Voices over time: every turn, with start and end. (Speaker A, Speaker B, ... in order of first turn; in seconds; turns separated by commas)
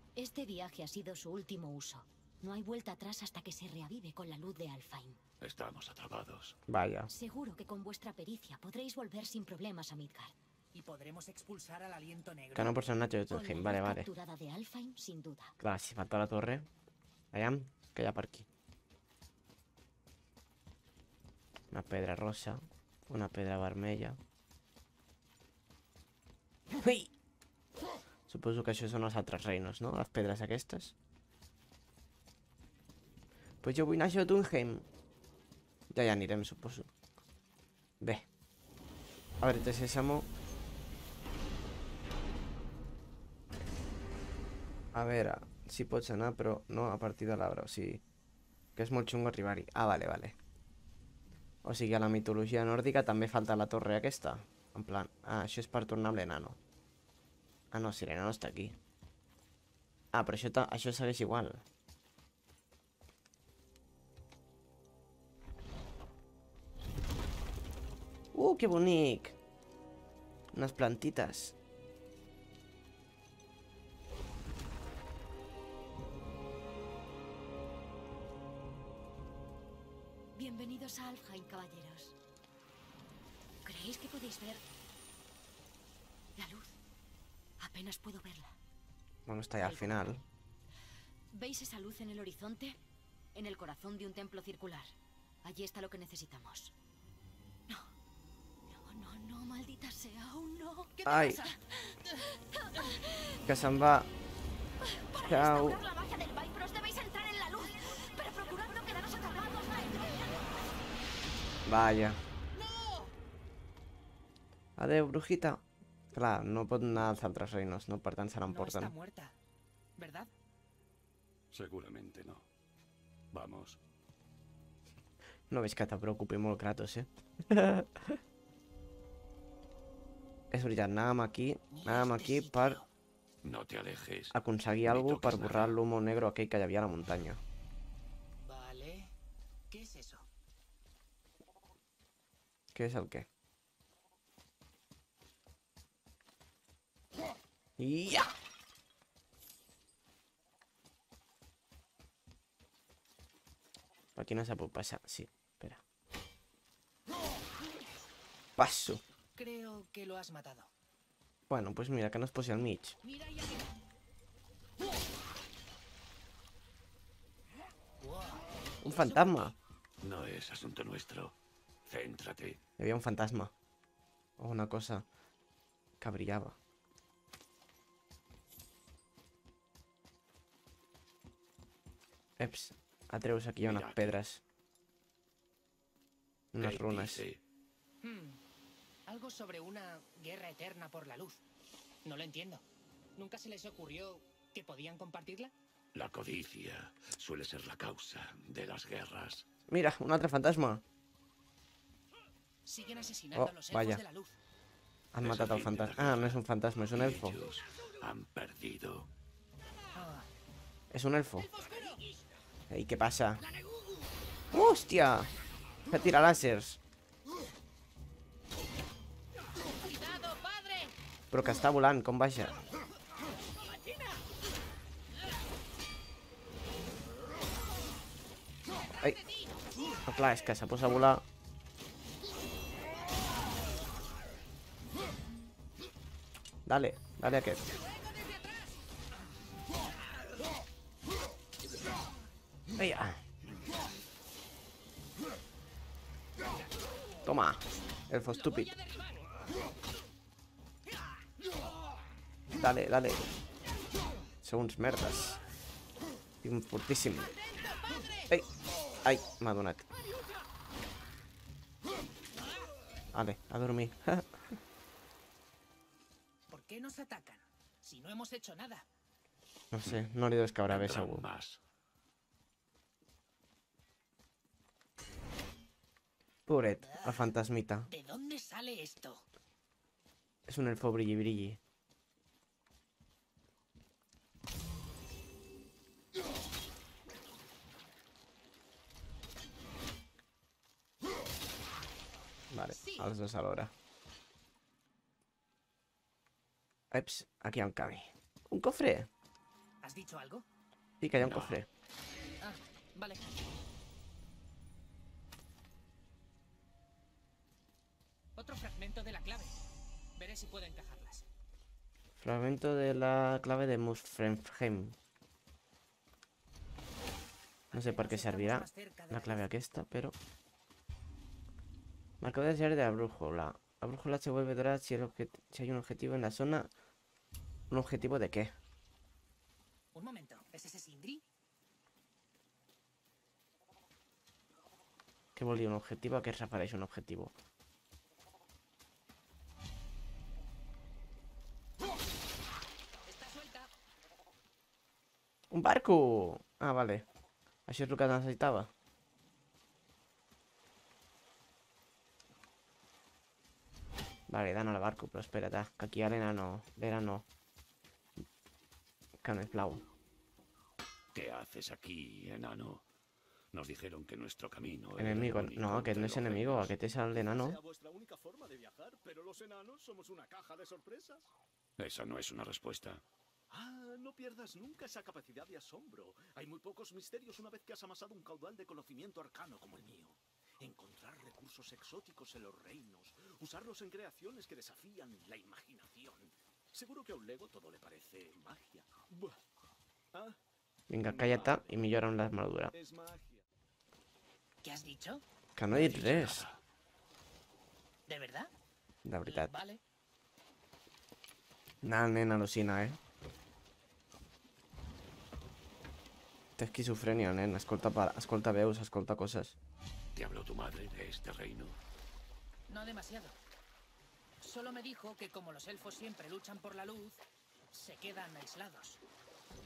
Speaker A: 0.1-5.2, Speaker B: 5.4-6.6, Speaker C: 6.7-7.1, Speaker A: 7.1-10.3, Speaker D: 10.7-12.8, Speaker C: 12.5-14.1, Speaker A: 13.3-15.6, Speaker C: 15.6-16.7, Speaker C: 17.3-18.4, Speaker C: 21.7-24.2, Speaker C: 26.7-27.1, Speaker C: 28.3-30.9, Speaker C: 33.6-34.9, Speaker C: 35.9-36.9, Speaker C: 38.0-38.2, Speaker C: 39.4-40.3, Speaker C: 44.9-48.0, Speaker C: 48.8-50.4, Speaker C: 51.6-56.6, Speaker C: 57.7-58.8, Speaker C: 60.1-61.6, Speaker C: 68.3-69.3, Speaker C: 70.5-71.5, Speaker A: 80.3-82.2, Speaker A: 83.6-84.6, Speaker A: 86.3-86.8, Speaker A: 87.6-88.6, Speaker C: 89.2-90.2, Speaker A: 89.6-90.0, Speaker A: 91.3-92.8, Speaker A: 93.3-96.7, Speaker A: 98.7-100.9, Speaker D: 101.0-101.6, Speaker C: 101.0-101.4, Speaker A: 101.4-103.4, Speaker C: 103.5-104.1, Speaker A: 104.8-110.5, Speaker C: 105.2-105.8, Speaker C: 111.7-112.2, Speaker D: 112.5-113.1, Speaker C: 114.8-118.9, Speaker D: 118.5-119.3, Speaker D: 120.0-120.3, Speaker B: 121.5-122.5, Speaker B: 123.3-123.8, Speaker C: 125.5-128.2, Speaker C: 130.5-132.8, Speaker D: 131.7-132.9, Speaker B: 133.4-135.7, Speaker C: 134.3-137.4, Speaker D: 138.4-139.1, Speaker D: 139.7-140.3, Speaker C: 142.7-143.3, Speaker C: 147.8-148.3, Speaker C: 154.2-155.8, Speaker C: 158.6-159.0, Speaker D: 159.3-160.7, Speaker C: 161.5-162.9, Speaker D: 163.0-163.7, Speaker D: 168.0-169.5, Speaker C: 168.8-169.5, Speaker B: 170.0-172.6, Speaker C: 172.8-173.5, Speaker C: 174.4-175.0, Speaker C: 176.0-176.6, Speaker C: 182.4-184.4, Speaker B: 183.6-184.2, Speaker C: 186.5-187.2, Speaker B: 186.6-187.4, Speaker D: 188.0-188.4, Speaker D: 189.1-191.4, Speaker D: 192.0-192.6, Speaker D: 193.2-195.5, Speaker B: 195.9-199.4, Speaker C: 199.7-200.8, Speaker D: 202.7-204.4, Speaker C: 203.3-204.0, Speaker C: 205.1-207.4, Speaker B: 205.2-206.4, Speaker B: 206.9-209.1, Speaker D: 209.9-210.3, Speaker C: 210.9-211.5, Speaker D: 211.4-212.1, Speaker C: 212.7-213.4, Speaker C: 214.5-215.3, Speaker C: 215.9-216.8, Speaker D: 219.8-220.9, Speaker C: 221.3-222.6, Speaker D: 228.8-229.6, Speaker C: 230.1-231.2, Speaker C: 236.7-237.6, Speaker D: 237.7-238.8, Speaker C: 242.8-243.2, Speaker C: 247.2-248.7, Speaker D: 248.3-249.4, Speaker C: 252.6-253.2, Speaker C: 254.4-255.4, Speaker C: 256.4-257.3, Speaker D: 257.4-258.4, Speaker C: 259.0-259.8, Speaker C: 263.1-264.6, Speaker D: 266.5-268.8, Speaker C: 269.7-271.2, Speaker B: 270.7-271.6, Speaker C: 276.5-277.9, Speaker D: 276.8-277.4, Speaker D: 277.9-279.2, Speaker C: 280.4-281.6, Speaker C: 292.5-293.7, Speaker D: 292.7-293.1, Speaker C: 296.9-299.1, Speaker D: 299.8-300.4, Speaker C: 301.0-301.7, Speaker B: 301.2-301.6, Speaker D: 302.4-303.3, Speaker D: 308.4-309.6, Speaker D: 310.1-311.2, Speaker C: 312.2-314.9, Speaker D: 317.7-319.4, Speaker C: 317.7-320.1, Speaker C: 322.2-326.7, Speaker C: 327.7-328.5, Speaker D: 329.9-331.2, Speaker C: 335.4-337.3, Speaker D: 343.0-343.7, Speaker C: 345.5-347.1, Speaker C: 347.7-348.7, Speaker C: 354.3-357.2, Speaker C: 359.2-359.8, Speaker B: 361.1-362.8, Speaker B: 363.5-366.7, Speaker C: 365.0-367.6, Speaker E: 367.1-371.3, Speaker B: 371.8-373.0, Speaker E: 373.5-389.4, Speaker E: 390.1-390.4, Speaker C: 390.9-392.7, Speaker E: 391.0-391.9, Speaker E: 392.7-393.4, Speaker D: 394.6-395.2, Speaker C: 395.6-396.4, Speaker B: 395.7-396.6, Speaker D: 398.1-398.5, Speaker C: 399.0-399.5, Speaker D: 399.2-399.8, Speaker C: 401.8-403.0, Speaker C: 406.6-409.6, Speaker B: 410.1-411.8, Speaker D: 412.7-413.4, Speaker D: 414.4-417.2, Speaker D: 417.7-419.0